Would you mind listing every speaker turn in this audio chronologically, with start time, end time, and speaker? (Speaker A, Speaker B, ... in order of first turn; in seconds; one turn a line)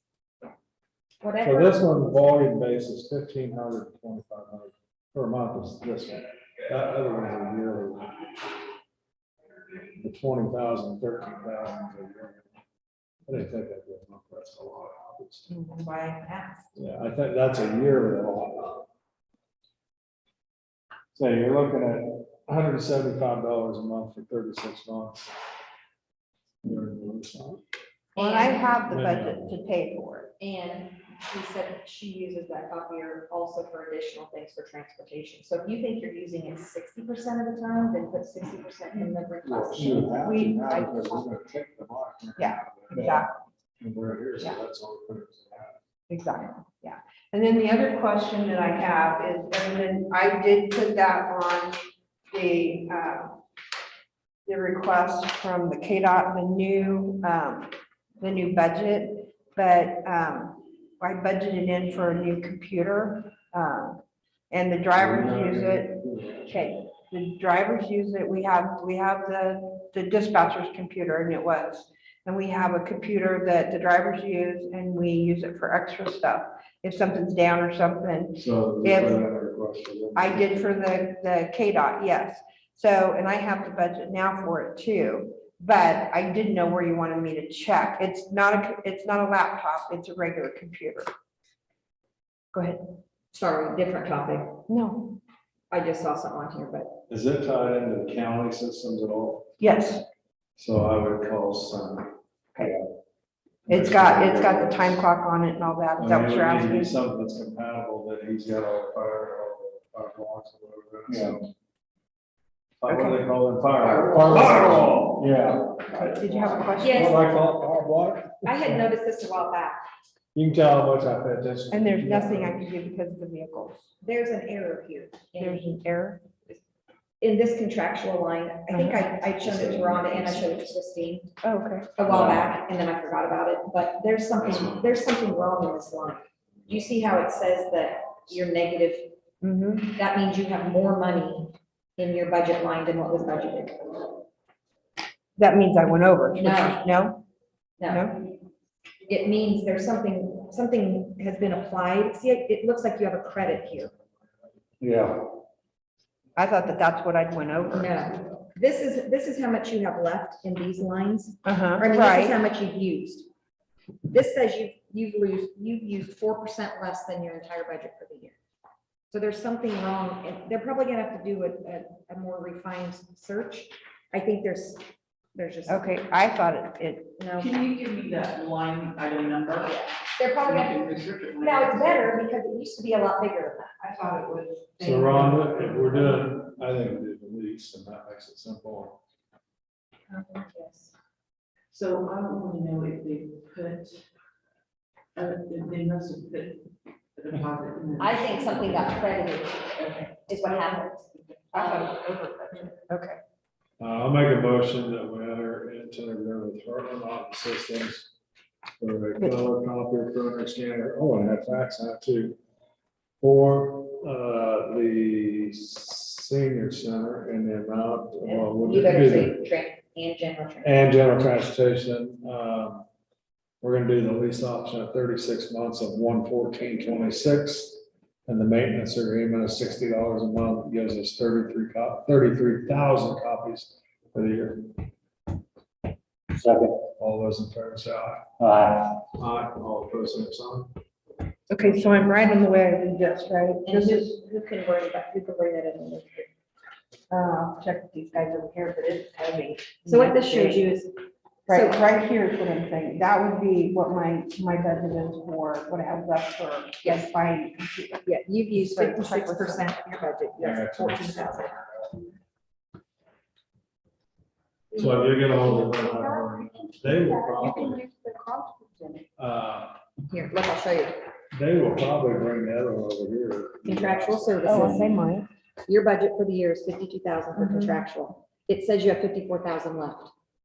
Speaker A: 1.2-1.8
Speaker B: 1.4-8.4
Speaker B: 10.0-12.5
Speaker B: 13.3-15.5
Speaker A: 15.5-16.7
Speaker B: 16.8-18.8
Speaker B: 21.1-25.3
Speaker B: 26.6-27.6
Speaker C: 28.1-30.3
Speaker A: 28.2-28.7
Speaker B: 28.9-29.5
Speaker A: 30.4-41.2
Speaker B: 39.4-45.8
Speaker C: 40.2-40.9
Speaker C: 42.4-43.3
Speaker C: 46.1-51.8
Speaker C: 52.3-53.4
Speaker C: 54.5-79.2
Speaker B: 64.9-66.6
Speaker B: 78.3-80.6
Speaker C: 80.2-91.1
Speaker C: 92.5-92.8
Speaker A: 93.3-94.6
Speaker C: 94.7-95.2
Speaker A: 95.7-97.0
Speaker B: 97.1-99.5
Speaker C: 99.6-100.0
Speaker B: 100.6-102.9
Speaker B: 103.7-105.0
Speaker C: 103.7-106.9
Speaker B: 106.0-111.5
Speaker B: 112.8-118.9
Speaker C: 112.9-113.2
Speaker C: 115.9-117.2
Speaker A: 116.8-117.2
Speaker A: 118.4-119.8
Speaker B: 120.3-122.7
Speaker C: 121.7-123.9
Speaker A: 124.0-125.8
Speaker C: 125.4-126.2
Speaker A: 127.2-131.3
Speaker C: 128.7-129.2
Speaker B: 129.4-130.6
Speaker C: 131.4-131.9
Speaker A: 132.0-139.2
Speaker B: 132.1-132.4
Speaker B: 134.5-134.8
Speaker C: 139.4-139.9
Speaker A: 139.9-143.9
Speaker C: 145.4-147.2
Speaker A: 146.4-146.8
Speaker A: 147.8-148.1
Speaker C: 147.9-148.2
Speaker A: 149.1-153.9
Speaker B: 154.8-155.2
Speaker C: 156.4-158.2
Speaker A: 157.7-163.3
Speaker C: 161.4-162.4
Speaker A: 164.1-168.4
Speaker A: 169.1-174.8
Speaker A: 175.3-176.0
Speaker C: 175.7-177.2
Speaker A: 177.2-177.6
Speaker D: 177.4-182.2
Speaker A: 180.0-183.8
Speaker C: 183.8-186.2
Speaker B: 184.8-189.0
Speaker C: 190.1-190.7
Speaker D: 191.7-194.0
Speaker D: 195.2-200.6
Speaker A: 198.0-202.0
Speaker C: 201.5-203.2
Speaker B: 203.8-208.1
Speaker B: 208.8-212.4
Speaker B: 213.2-219.4
Speaker A: 218.2-220.9
Speaker B: 220.6-222.9
Speaker B: 223.6-234.8
Speaker B: 236.8-240.7
Speaker C: 241.5-244.1
Speaker A: 243.7-246.3
Speaker C: 247.1-250.6
Speaker A: 249.8-250.9
Speaker A: 251.5-251.8
Speaker C: 251.5-259.7
Speaker A: 256.8-257.1
Speaker A: 258.0-261.7
Speaker B: 260.4-261.5
Speaker C: 264.7-269.1
Speaker B: 264.7-267.8
Speaker B: 269.2-269.8
Speaker A: 270.1-271.0
Speaker B: 271.3-274.9
Speaker A: 273.6-274.9
Speaker C: 274.4-275.3
Speaker A: 275.6-280.1
Speaker C: 277.3-277.8